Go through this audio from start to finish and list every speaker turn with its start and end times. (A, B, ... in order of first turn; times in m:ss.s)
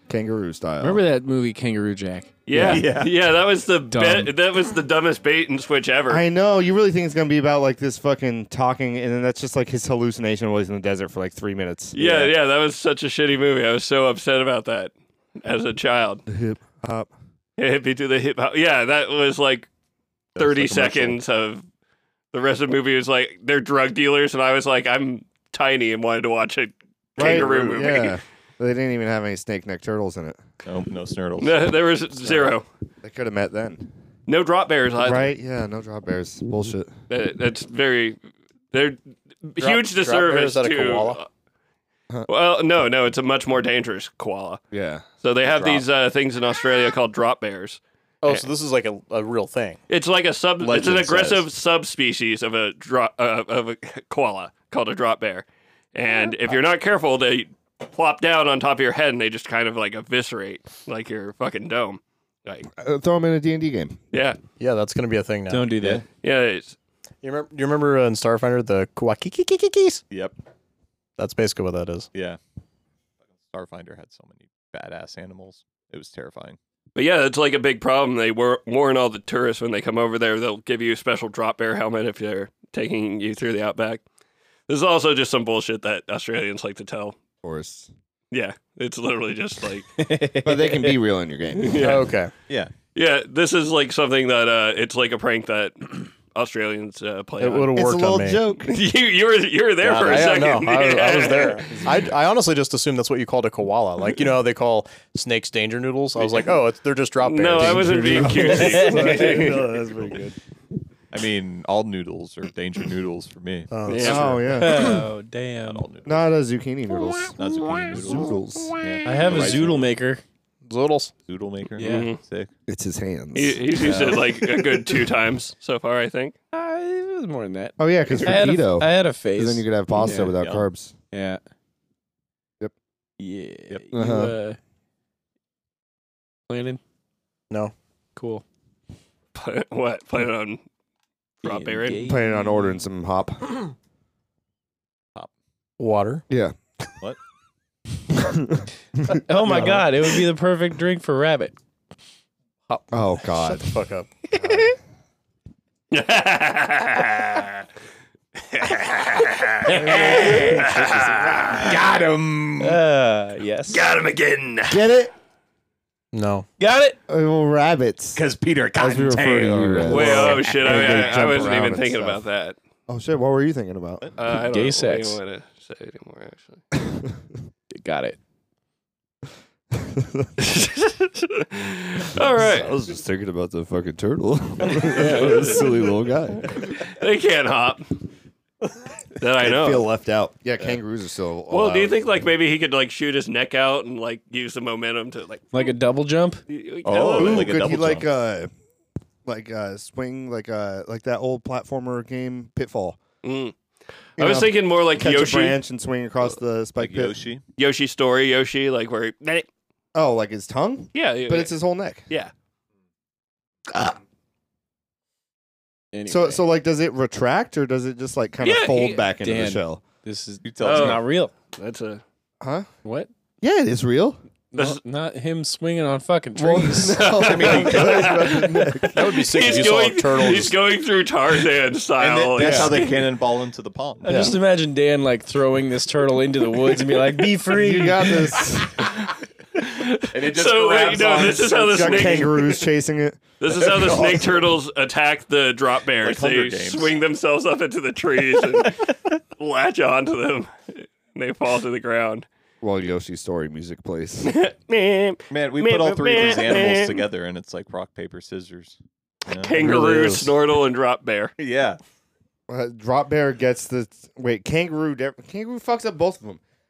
0:00.1-0:01.0 A
0:00.8-0:02.4 B
0:02.5-0:06.2 C
0:02.5-0:02.8 A
0:02.6-0:03.1 D
0:03.9-0:04.3 B
0:06.1-0:12.3 A
0:11.9-0:16.2 C
0:16.3-0:17.1 A
0:17.6-0:19.7 C
0:20.4-0:21.2 D
0:20.4-0:21.6 C
0:22.3-0:28.2 C
0:27.2-0:30.4 A
0:27.2-0:27.8 D
0:30.6-0:31.7 D
0:31.4-0:32.6 C
0:33.0-0:33.9 A
0:34.3-0:35.3 C
0:35.0-0:36.9 A
0:37.1-0:38.2 C
0:38.7-0:41.3 C
0:39.6-0:41.2 E
0:42.3-0:44.6 C
0:44.7-0:45.0 A
0:45.2-0:48.4 C
0:48.2-0:49.8 E
0:49.9-1:02.7 C
0:50.6-0:51.4 D
1:02.7-1:04.0 A
1:04.1-1:04.4 C
1:04.6-1:05.8 E
1:05.5-1:06.0 B
1:05.8-1:06.0 D
1:06.2-1:06.7 C
1:07.2-1:10.0 E
1:10.1-1:10.3 D
1:11.2-1:12.1 E
1:12.1-1:12.4 D
1:13.4-1:16.6 D
1:17.0-1:24.0 C
1:24.7-1:27.1 C
1:27.4-1:27.9 A
1:28.3-1:29.9 C
1:30.0-1:31.0 B
1:30.4-1:31.9 A
1:31.6-1:32.1 C
1:31.8-1:32.3 E
1:32.9-1:37.7 C
1:37.4-1:38.4 E
1:37.7-1:38.7 A
1:38.7-1:41.8 C
1:39.8-1:40.3 D
1:39.9-1:48.5 E
1:47.2-1:49.7 C
1:47.6-1:50.4 A
1:48.6-1:49.1 B
1:51.1-1:53.7 D
1:53.7-1:55.0 E
1:53.9-1:54.3 C
1:54.0-1:55.0 A
1:54.5-1:55.8 B
1:55.6-1:56.3 D
1:56.0-1:59.0 A
1:57.4-1:59.9 D
1:59.0-2:00.2 B
2:00.6-2:01.1 E
2:01.3-2:02.5 D
2:01.8-2:02.1 B
2:01.8-2:02.2 C
2:02.7-2:04.2 A
2:03.3-2:06.3 C
2:03.8-2:04.2 D
2:06.5-2:10.4 B
2:07.8-2:10.9 A
2:10.3-2:10.7 D
2:11.1-2:11.4 B
2:13.2-2:14.6 B
2:13.9-2:14.4 A
2:16.5-2:16.8 B
2:18.2-2:18.4 B
2:19.3-2:20.6 C
2:21.4-2:22.0 C
2:21.4-2:22.6 B
2:22.0-2:23.6 A
2:25.8-2:26.2 E
2:26.3-2:26.5 A
2:28.1-2:29.6 A
2:29.0-2:31.5 B
2:29.5-2:29.8 D
2:32.9-2:33.7 A
2:33.3-2:34.6 E
2:35.9-2:37.6 C
2:38.5-2:41.6 C
2:39.7-2:40.7 B
2:39.7-2:41.6 A
2:39.8-2:40.6 D
2:41.4-2:42.8 D
2:42.6-2:43.9 B
2:43.7-2:44.8 C
2:44.7-2:45.1 A
2:46.1-2:46.5 E
2:46.6-2:47.0 B
2:47.1-2:48.2 A
2:48.1-2:51.4 D
2:48.7-2:52.2 A
2:49.8-2:52.6 C
2:52.9-2:54.0 A
2:54.2-2:56.6 C
2:54.3-2:55.2 B
2:56.7-2:57.2 A
2:57.7-2:58.2 B
2:59.8-3:00.3 A
3:00.4-3:02.7 C
3:02.1-3:06.7 A
3:04.6-3:05.9 C
3:06.5-3:07.8 C
3:09.2-3:09.8 C
3:09.4-3:12.0 A
3:11.5-3:15.7 C
3:15.5-3:16.4 B
3:16.5-3:17.6 C
3:16.8-3:18.1 D
3:17.1-3:18.5 A
3:19.2-3:23.0 A
3:23.2-3:23.5 C
3:24.2-3:25.6 C
3:24.2-3:27.2 A
3:26.8-3:27.4 D
3:27.6-3:29.4 C
3:29.9-3:32.0 A
3:30.9-3:31.5 C
3:35.9-3:36.4 B
3:36.1-3:39.8 A
3:38.4-3:39.1 C
3:39.2-3:41.3 B
3:40.4-3:41.0 D
3:40.6-3:42.0 C
3:42.4-3:42.7 A
3:42.8-3:43.1 B
3:43.4-3:44.2 A
3:44.5-3:47.1 B
3:46.4-3:49.1 A
3:46.9-3:53.0 C
3:47.2-3:48.3 D
3:48.9-3:50.6 E
3:52.0-3:54.3 D
3:52.4-3:52.8 A
3:54.0-3:58.3 B
3:54.1-3:54.4 E
3:57.5-3:58.9 A
3:58.8-4:02.6 C
4:00.1-4:02.4 D
4:01.6-4:03.2 A
4:03.4-4:08.8 C
4:03.5-4:04.5 D
4:06.0-4:07.0 D
4:09.4-4:12.2 C
4:12.6-4:14.3 A
4:14.2-4:17.0 C
4:15.3-4:19.6 D
4:19.3-4:21.3 C
4:19.6-4:20.0 A
4:19.7-4:20.3 E
4:21.4-4:21.8 D
4:22.5-4:26.4 A